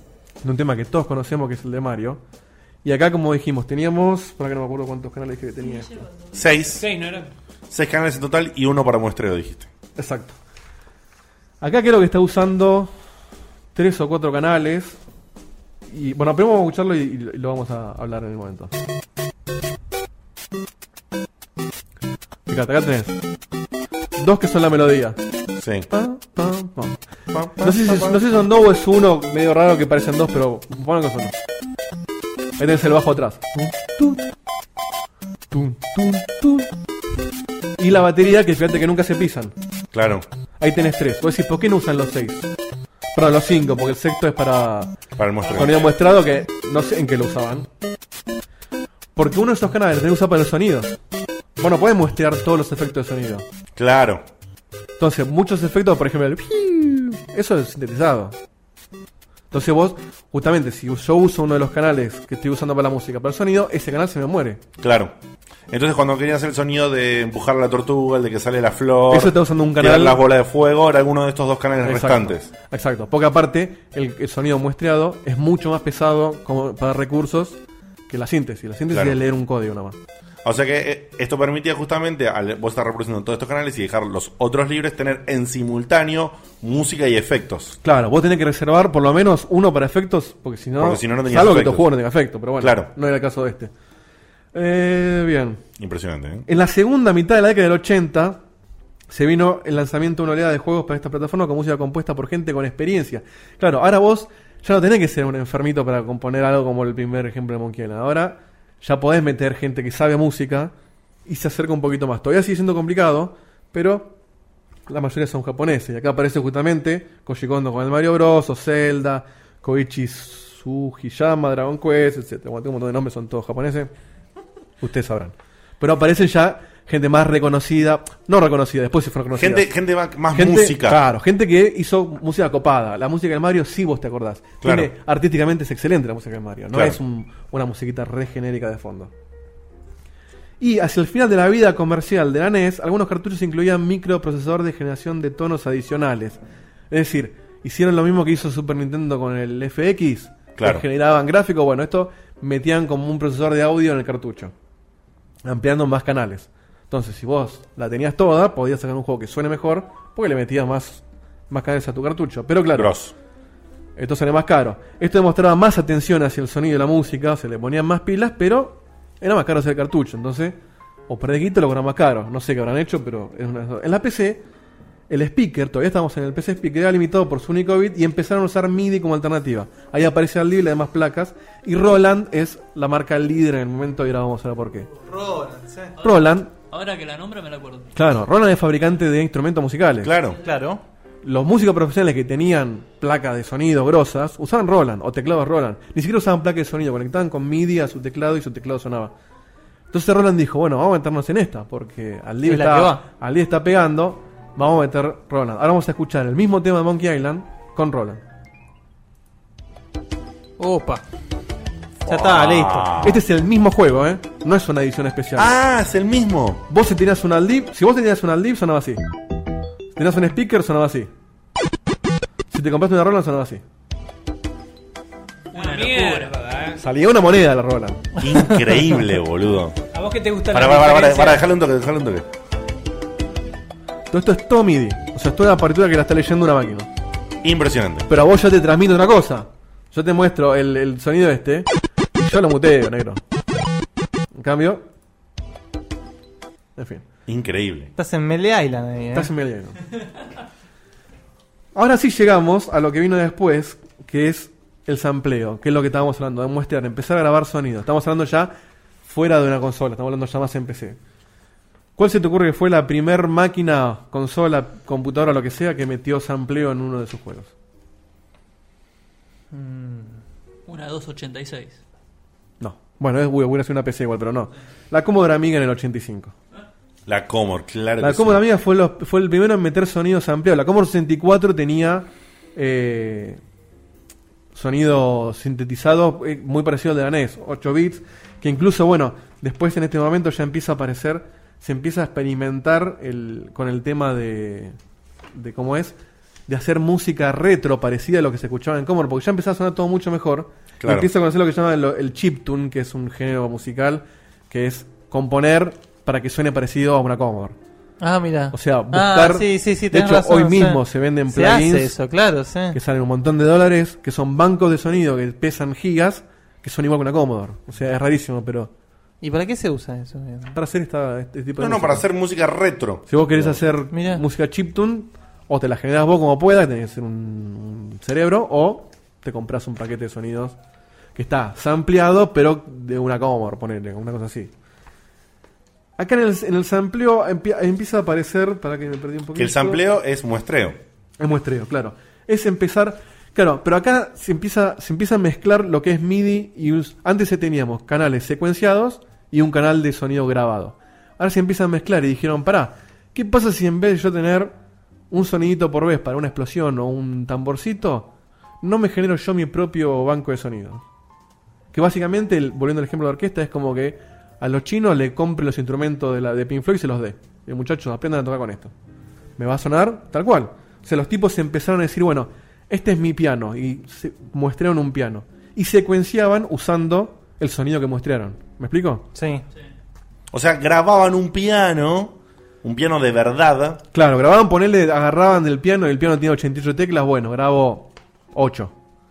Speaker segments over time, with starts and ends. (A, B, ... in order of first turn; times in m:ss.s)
0:00.4-0:02.2 A
0:02.8-0:06.0 A
0:06.3-0:06.8 B
0:06.7-0:07.3 C
0:07.7-0:09.7 B
0:10.0-0:10.4 A
0:11.6-0:12.9 A
0:13.7-0:15.0 A
0:15.9-0:18.7 A
0:22.5-0:23.2 A
0:24.2-0:25.2 A
0:25.6-0:25.9 B
0:25.9-0:27.0 A
0:27.3-0:28.2 B
0:27.6-0:31.4 A
0:32.6-0:34.3 A
0:35.5-0:36.7 A
0:37.8-0:39.5 A
0:39.9-0:40.2 B
0:40.6-0:42.5 A
0:43.1-0:45.0 A
0:45.2-0:45.9 B
0:45.5-0:47.7 A
0:49.1-0:51.0 A
0:51.6-0:53.4 A
0:53.8-0:54.2 B
0:55.0-0:58.4 A
0:59.5-1:04.6 A
1:04.8-1:05.1 B
1:05.7-1:12.5 B
1:09.1-1:10.2 A
1:11.8-1:20.0 A
1:20.4-1:27.8 B
1:27.8-1:33.7 A
1:30.8-1:31.9 B
1:32.6-1:32.9 B
1:34.5-1:35.6 A
1:35.8-1:36.4 B
1:36.4-1:38.4 A
1:39.1-1:50.7 A
1:51.2-1:54.1 A
1:54.9-2:03.9 A
2:04.8-2:09.7 A
2:09.3-2:11.0 B
2:10.3-2:19.1 A
2:14.6-2:14.9 B
2:20.6-2:34.5 A
2:30.6-2:30.8 B
2:35.4-2:42.9 A
2:42.7-2:43.1 B
2:44.0-2:54.4 A
2:55.1-3:04.9 A
3:05.0-3:05.9 D
3:06.0-3:08.0 E
3:06.0-3:06.5 A
3:07.9-3:10.1 A
3:10.0-3:10.4 B
3:10.4-3:10.8 D
3:11.2-3:19.1 A
3:19.9-3:28.2 A
3:22.4-3:23.0 D
3:30.6-3:31.0 D
3:32.0-3:33.2 B
3:32.0-3:32.9 D
3:33.0-3:35.6 A
3:35.4-3:36.6 B
3:36.7-3:39.0 A
3:40.0-3:41.1 A
3:42.5-3:43.6 A
3:45.5-3:46.8 C
3:45.5-3:46.4 E
3:46.8-3:48.1 A
3:48.2-3:49.8 B
3:49.9-3:51.5 C
3:50.5-3:52.3 B
3:54.1-3:56.9 A
3:57.4-3:58.1 B
3:58.1-4:03.2 A
4:04.3-4:04.8 A
4:06.8-4:07.0 A
4:07.2-4:07.9 B
4:08.0-4:09.3 D
4:09.1-4:09.8 A
4:11.7-4:18.5 A
4:19.0-4:21.0 A
4:22.0-4:27.5 A
4:29.5-4:30.2 D
4:30.6-4:31.8 E
4:32.6-4:36.3 A
4:37.0-4:38.4 B
4:38.0-4:43.4 A
4:44.5-4:54.8 A
4:55.3-4:56.0 A
4:56.5-5:07.6 A
5:00.8-5:01.1 B
5:08.0-5:12.8 D
5:08.5-5:11.9 A
5:12.7-5:18.7 A
5:19.2-5:20.6 D
5:20.5-5:22.0 A
5:21.6-5:23.6 B
5:23.1-5:30.6 A
5:23.9-5:24.2 D
5:31.1-5:34.5 A
5:36.0-5:39.8 A
5:39.3-5:40.8 B
5:41.2-5:54.6 A
5:55.1-5:58.1 A
5:58.6-6:00.8 A
6:01.7-6:08.7 A
6:09.4-6:19.0 A
6:19.1-6:19.4 D
6:20.3-6:23.8 B
6:23.9-6:28.7 A